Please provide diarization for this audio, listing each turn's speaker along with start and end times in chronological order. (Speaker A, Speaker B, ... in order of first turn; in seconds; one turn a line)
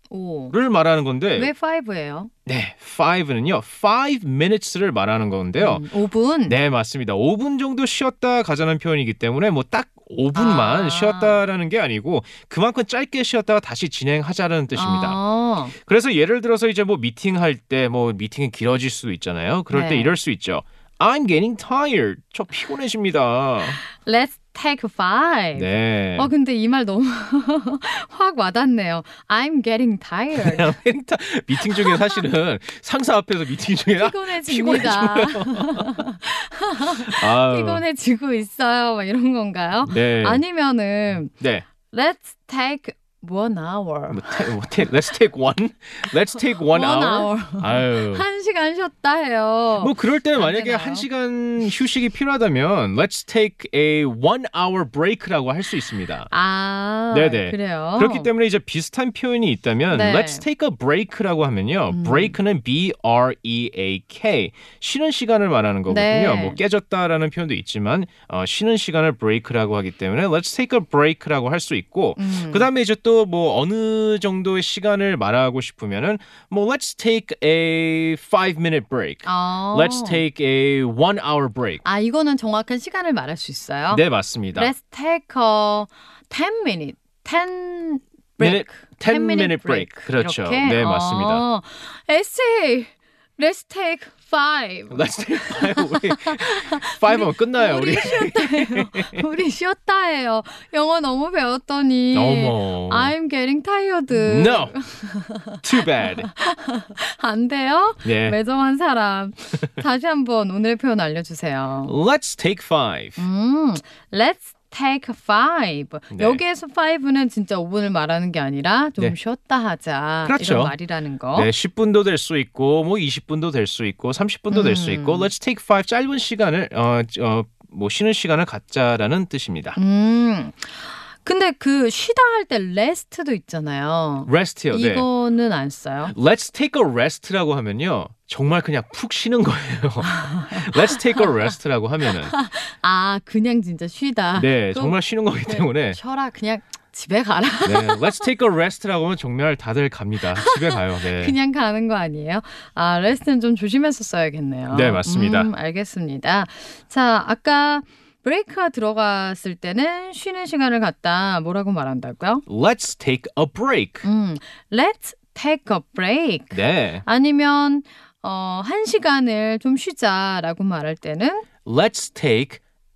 Speaker A: 0.1-0.5
Speaker B: 0.5-1.5
Speaker A: 1.4-2.3
Speaker B: 2.5-5.8
Speaker A: 5.6-6.6
Speaker B: 6.5-15.2
Speaker A: 10.3-11.4
Speaker A: 14.7-15.7
Speaker B: 15.8-23.8
Speaker A: 19.7-20.1
Speaker A: 23.9-30.7
Speaker B: 25.5-26.3
Speaker B: 30.3-36.0
Speaker A: 31.7-32.2
Speaker A: 34.0-41.3
Speaker B: 36.9-37.8
Speaker B: 39.8-40.4
Speaker B: 41.4-41.6
Speaker A: 41.9-44.5
Speaker B: 44.1-48.2
Speaker A: 46.7-51.0
Speaker B: 49.8-56.3
Speaker A: 56.3-58.3
Speaker B: 57.1-81.8
Speaker A: 59.9-60.4
Speaker A: 61.9-62.3
Speaker A: 65.9-66.6
Speaker A: 72.2-72.7
Speaker A: 79.2-80.2
Speaker A: 81.8-84.0
Speaker B: 83.9-84.7
Speaker A: 84.5-111.9
Speaker B: 88.4-91.4
Speaker B: 94.9-99.2
Speaker B: 102.1-103.1
Speaker B: 104.1-104.8
Speaker B: 105.6-106.3
Speaker B: 108.0-108.4
Speaker B: 111.9-113.2
Speaker A: 113.2-121.5
Speaker B: 116.1-116.4
Speaker B: 120.2-120.7
Speaker B: 121.3-129.8
Speaker A: 124.5-125.3
Speaker A: 129.8-136.1
Speaker B: 134.3-135.1
Speaker B: 136.1-142.3
Speaker A: 140.0-141.5
Speaker A: 142.3-148.2
Speaker B: 144.3-146.0
Speaker B: 147.6-151.3
Speaker A: 150.3-162.4
Speaker B: 154.7-155.5
Speaker B: 162.5-164.0
Speaker A: 164.0-171.4
Speaker B: 166.5-167.0
Speaker B: 171.6-172.6